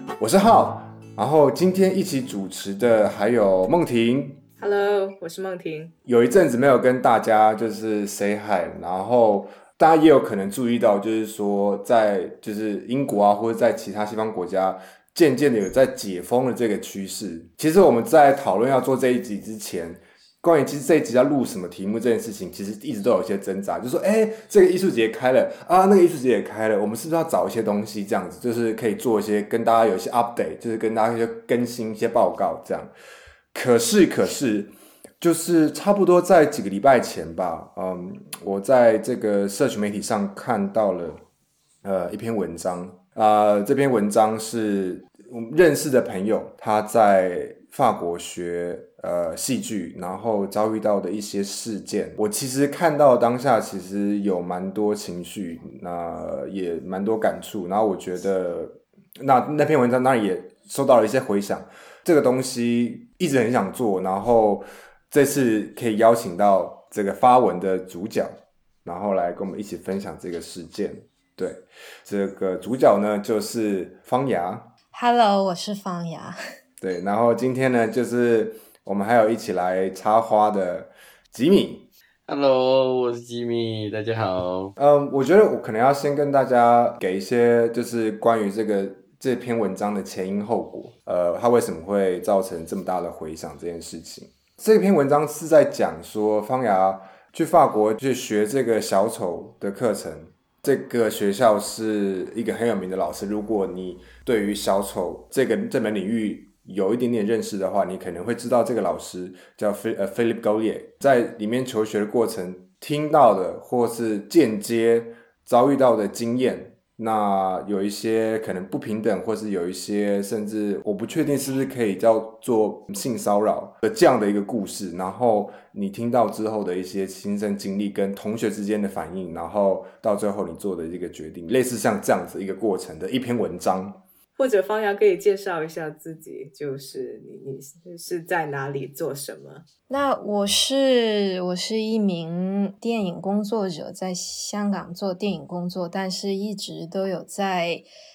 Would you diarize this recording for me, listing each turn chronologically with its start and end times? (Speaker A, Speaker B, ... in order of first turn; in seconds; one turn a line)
Speaker A: 0.2-4.4
Speaker B: 4.6-5.9
Speaker A: 6.1-32.9
Speaker A: 33.5-41.2
Speaker A: 41.8-68.3
Speaker A: 68.8-74.7
Speaker C: 74.9-76.4
Speaker A: 76.8-81.9
Speaker D: 82.3-84.7
Speaker A: 84.8-134.0
Speaker B: 134.4-139.7
Speaker C: 139.9-147.9